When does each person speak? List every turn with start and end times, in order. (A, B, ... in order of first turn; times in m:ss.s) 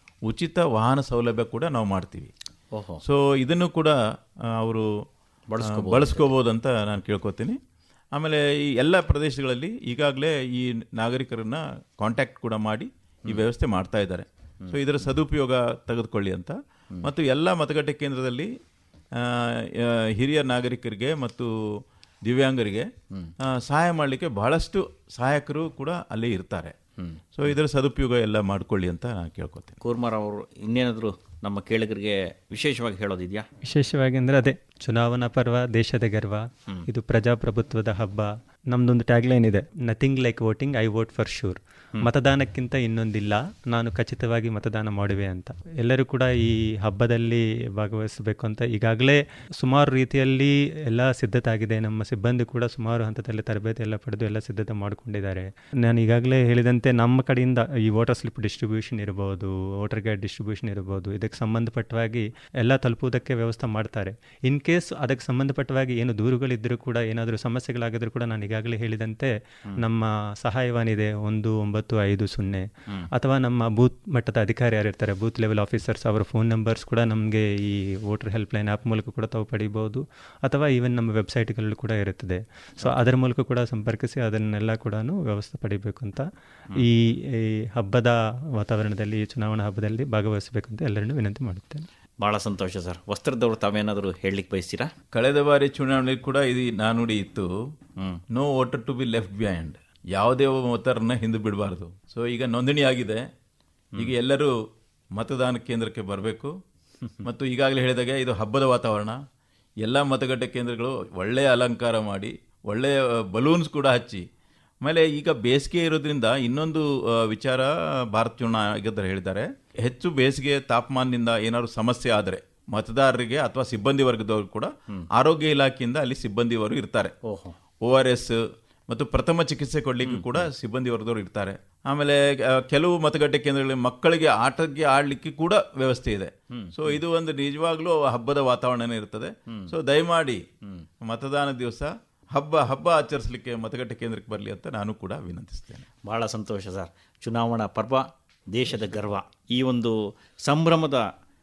0:00.3-0:02.3 A
0:02.7-0:03.0 B
0:03.0-0:03.9 A
0:04.5-0:04.9 A
0:05.5-0:06.3 B
0:05.6-0:07.6 A
0:08.1-0:18.5 A
0:19.2-0:21.5 A
0:22.2-0:22.9 A
0:23.4-0:26.7 A
0:27.0-0:27.5 B
0:27.4-0:29.8 A
0:29.8-0:33.4 B
0:33.6-1:26.2 C
1:26.8-1:31.9 C
1:32.2-1:34.9 B
1:35.1-1:37.5 A
1:38.3-1:43.2 A
1:44.0-1:44.5 A
1:45.2-1:46.5 A
1:47.2-1:49.2 A
1:49.8-1:54.2 A
1:54.8-2:07.1 A
2:07.3-2:07.6 B
2:07.8-2:08.4 A
2:08.9-2:20.4 A
2:10.0-2:10.5 B
2:16.6-2:17.0 B
2:21.0-2:25.9 A
2:26.1-2:31.0 B